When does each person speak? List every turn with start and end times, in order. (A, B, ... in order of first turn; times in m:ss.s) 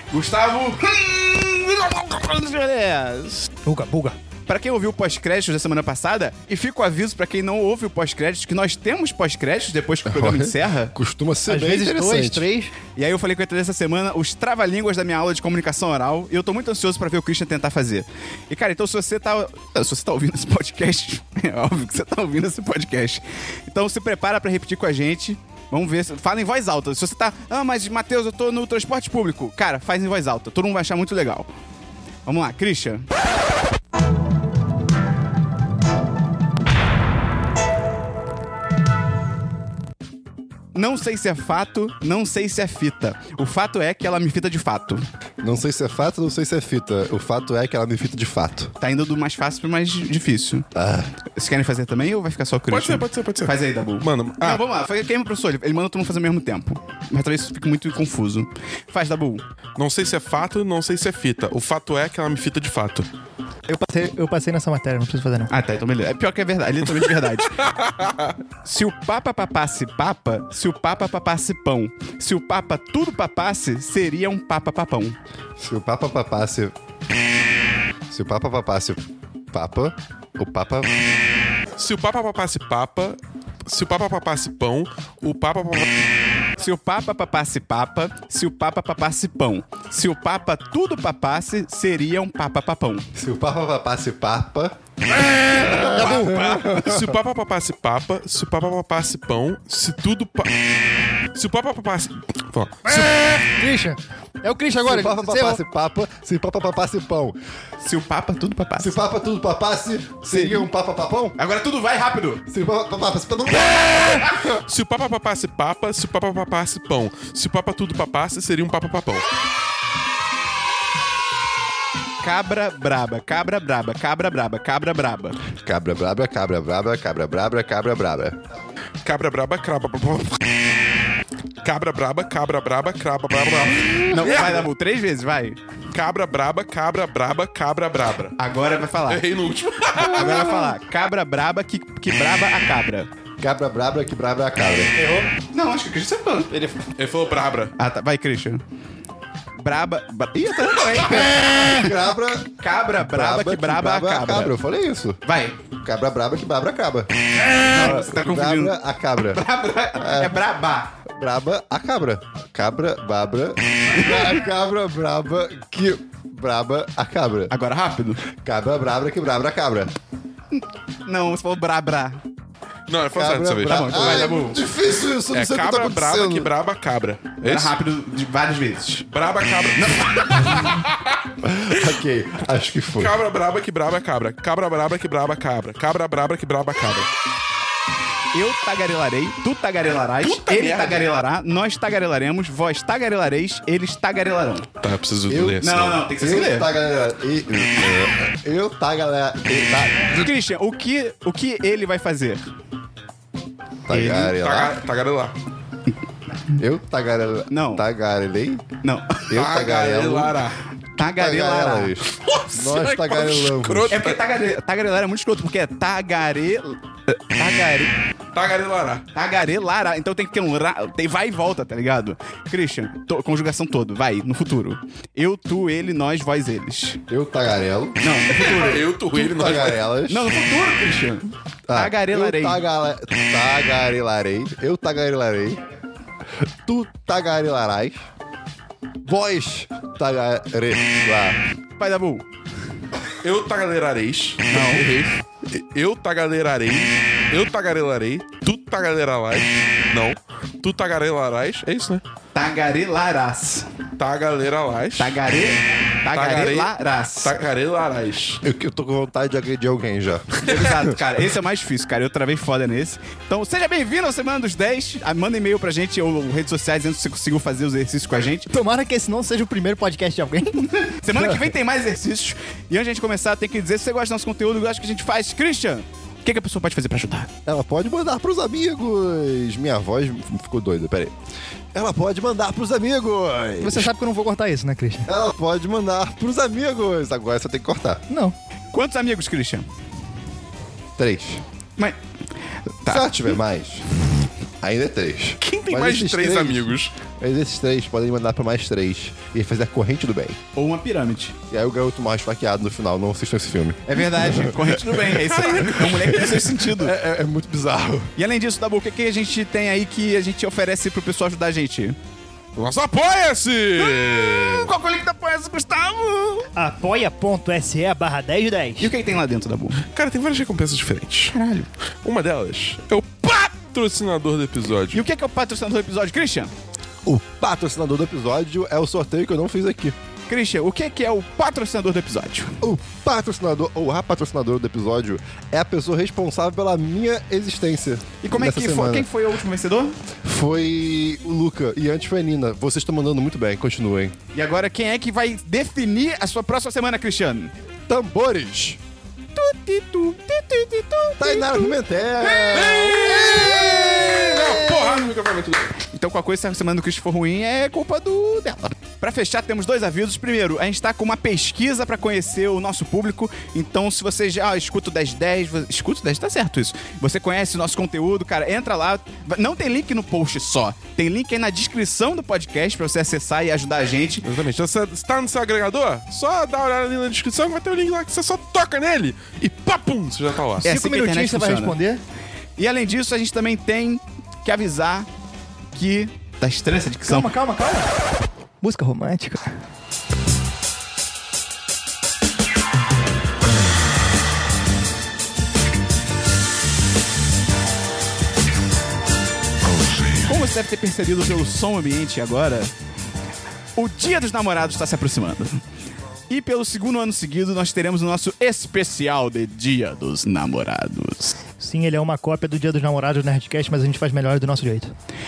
0:00.1-0:03.5 A
0:03.6-0:04.2 B
0:04.5-0:10.9 A
0:10.0-0:12.5 C
0:11.5-0:12.7 B
0:12.9-0:31.5 A
0:32.2-0:33.0 A
0:40.7-0:45.0 A
0:45.4-0:48.7 C
0:48.8-0:50.7 A
0:50.7-0:51.1 C
0:51.3-0:59.4 A
0:52.7-0:54.6 D
0:59.8-1:03.1 D
1:03.7-1:05.5 B
1:05.5-1:07.6 A
1:07.5-1:08.3 D
1:08.6-1:15.2 A
1:15.6-1:16.7 C
1:18.1-1:20.9 C
1:21.8-1:26.0 D
1:26.6-1:33.1 A
1:33.1-1:34.8 C
1:35.2-1:37.0 A
1:35.5-1:37.1 C
1:35.8-1:36.6 B
1:36.6-1:40.6 D
1:41.3-1:43.4 D
1:42.8-1:45.6 B
1:44.8-1:47.3 C
1:47.8-1:48.9 A
1:48.8-1:51.4 C
1:50.3-1:50.6 A
1:51.4-1:52.4 A
1:52.5-1:54.4 C
1:54.2-1:59.2 D
2:02.2-2:05.4 A
2:05.6-2:08.4 C
2:09.0-2:10.4 D
2:11.6-2:14.7 D
2:14.1-2:15.6 A
2:15.9-2:18.4 D
2:18.4-2:19.2 A
2:19.1-2:20.8 D
2:20.0-2:23.1 A
2:23.4-2:24.9 C
2:25.0-2:25.3 B
2:25.5-2:26.5 A
2:26.5-2:26.8 B
2:27.0-2:27.8 D
2:27.8-2:28.6 A
2:29.6-2:32.0 A
2:31.3-2:35.2 C
2:32.6-2:34.6 A
2:35.2-2:35.6 A
2:35.8-2:37.1 C
2:37.6-2:38.7 A
2:37.7-2:39.4 C
2:39.3-2:40.9 A
2:40.0-2:40.4 C
2:41.1-2:47.5 C
2:43.9-2:44.3 A
2:47.5-2:48.2 A
2:48.3-2:49.9 C
2:50.5-2:52.2 A
2:52.9-2:54.3 D
2:53.2-2:56.5 C
2:53.6-2:54.6 A
2:55.3-2:57.7 D
2:57.4-2:59.1 A
2:59.1-3:01.2 D
2:59.8-3:00.8 A
3:01.4-3:03.2 C
3:03.0-3:07.1 D
3:08.3-3:14.7 A
3:10.2-3:11.0 D
3:14.8-3:16.1 D
3:15.3-3:15.6 C
3:15.6-3:16.7 A
3:16.1-3:20.2 C
3:20.1-3:22.4 A
3:23.9-3:24.7 C
3:23.9-3:24.4 A
3:24.2-3:25.3 D
3:26.6-3:28.6 C
3:27.5-3:27.8 A
3:28.8-3:29.3 A
3:29.3-3:30.4 C
3:29.3-3:30.6 D
3:31.0-3:31.9 A
3:31.0-3:34.0 C
3:32.1-3:34.2 D
3:33.9-3:38.0 A
3:38.3-3:39.1 D
3:39.1-3:47.0 A
3:47.1-3:48.0 C
3:48.0-3:52.6 A
3:48.3-3:49.8 D
3:49.3-3:50.3 C
3:51.7-3:55.6 C
3:56.7-3:58.0 C
3:59.0-4:01.4 C
4:01.8-4:02.2 A
4:03.2-4:12.0 D
4:04.5-4:04.9 A
4:12.4-4:13.7 A
4:14.0-4:15.2 D
4:15.0-4:17.3 A
4:16.1-4:18.4 D
4:18.4-4:20.9 C
4:20.4-4:28.5 A
4:20.4-4:20.8 D
4:28.5-4:30.7 B
4:30.6-4:37.3 A
4:37.4-4:41.1 C
4:41.7-4:43.9 C
4:43.6-4:45.1 B
4:45.1-4:48.0 C
4:48.1-4:48.3 B
4:48.7-4:49.7 A
4:51.0-4:51.4 C
4:52.8-4:53.4 A
4:52.9-4:53.8 C
4:54.6-5:00.4 C
4:55.4-4:56.9 D
5:00.6-5:01.4 A
5:01.5-5:04.6 C
5:03.9-5:06.9 A
5:05.1-5:06.5 D
5:06.2-5:08.1 C
5:08.2-5:12.0 A
5:12.6-5:14.7 D
5:13.8-5:16.5 A
5:16.6-5:18.9 B
5:18.8-5:19.8 A
5:19.8-5:21.4 D
5:21.3-5:21.7 A
5:22.0-5:25.0 D
5:24.9-5:26.5 A
5:27.0-5:30.0 C
5:30.3-5:32.6 A
5:32.6-5:39.1 C
5:38.2-5:40.0 A
5:40.2-5:44.1 C
5:44.3-5:47.5 A
5:47.9-5:48.8 C
5:49.4-5:55.1 A
5:51.2-5:53.2 C
5:52.5-5:55.8 D
5:55.8-6:14.3 A
6:14.2-6:20.7 D
6:20.6-6:21.8 A
6:20.6-6:22.0 B
6:22.6-6:25.1 A
6:25.7-6:27.3 A
6:27.1-6:27.9 B
6:28.6-6:29.4 B
6:40.2-6:42.7 A
6:43.8-6:45.6 A
6:46.3-6:51.4 A
6:51.6-6:54.9 B